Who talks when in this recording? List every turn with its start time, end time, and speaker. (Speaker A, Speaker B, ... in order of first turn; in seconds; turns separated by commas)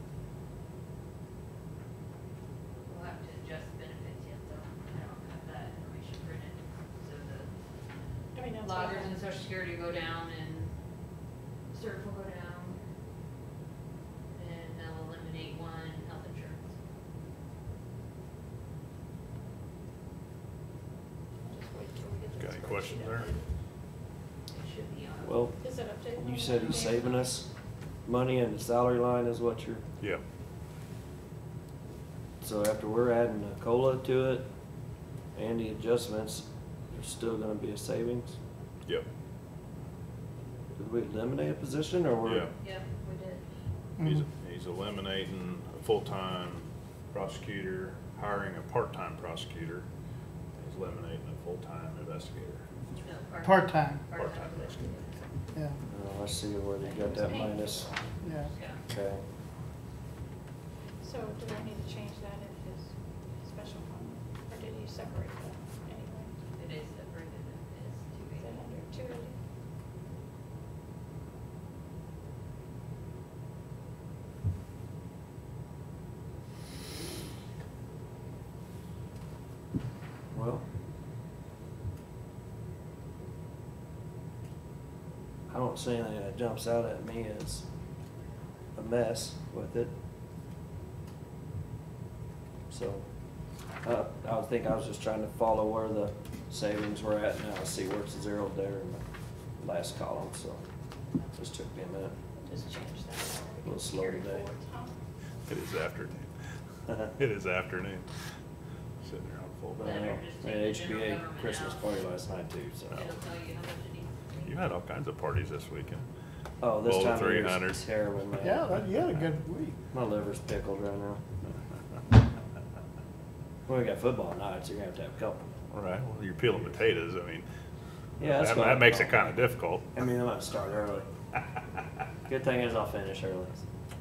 Speaker A: 2.8-7.5, Speaker B: 8.3-9.1, Speaker A: 8.6-10.7, Speaker A: 11.7-12.8, Speaker A: 14.3-16.7, Speaker B: 21.4-23.5, Speaker C: 22.4-23.3, Speaker A: 24.5-25.5, Speaker D: 25.2-25.6, Speaker B: 25.6-26.8, Speaker D: 26.1-27.5, Speaker A: 26.4-27.4, Speaker D: 28.0-29.8, Speaker D: 32.4-34.5, Speaker D: 35.3-38.4, Speaker D: 40.8-42.5, Speaker A: 42.6-43.4, Speaker E: 44.0-44.2, Speaker C: 44.0-49.9, Speaker C: 50.6-52.6, Speaker A: 53.0-55.2, Speaker E: 53.4-54.0, Speaker C: 54.1-55.0, Speaker D: 55.9-58.0, Speaker A: 56.8-57.4, Speaker B: 57.1-58.2, Speaker E: 58.2-58.5, Speaker A: 58.4-58.8, Speaker D: 58.9-59.2, Speaker B: 61.0-66.3, Speaker A: 66.6-68.8, Speaker B: 68.4-69.4, Speaker D: 80.3-80.6, Speaker D: 85.5-87.7, Speaker D: 88.8-89.9, Speaker D: 92.7-93.1, Speaker D: 93.8-99.0, Speaker D: 99.6-100.6, Speaker D: 101.3-102.2, Speaker B: 102.3-104.9, Speaker D: 103.6-104.5, Speaker C: 105.5-106.3, Speaker C: 107.2-108.1, Speaker C: 109.0-109.8, Speaker D: 109.8-113.1, Speaker A: 109.8-112.0, Speaker A: 112.9-114.6, Speaker C: 114.4-116.1, Speaker D: 116.6-118.7, Speaker C: 116.8-117.8, Speaker E: 118.4-119.7, Speaker D: 119.9-121.2, Speaker D: 123.7-125.4, Speaker C: 125.7-127.5, Speaker D: 128.2-129.3, Speaker C: 128.2-129.9, Speaker D: 129.9-131.1, Speaker D: 132.3-133.6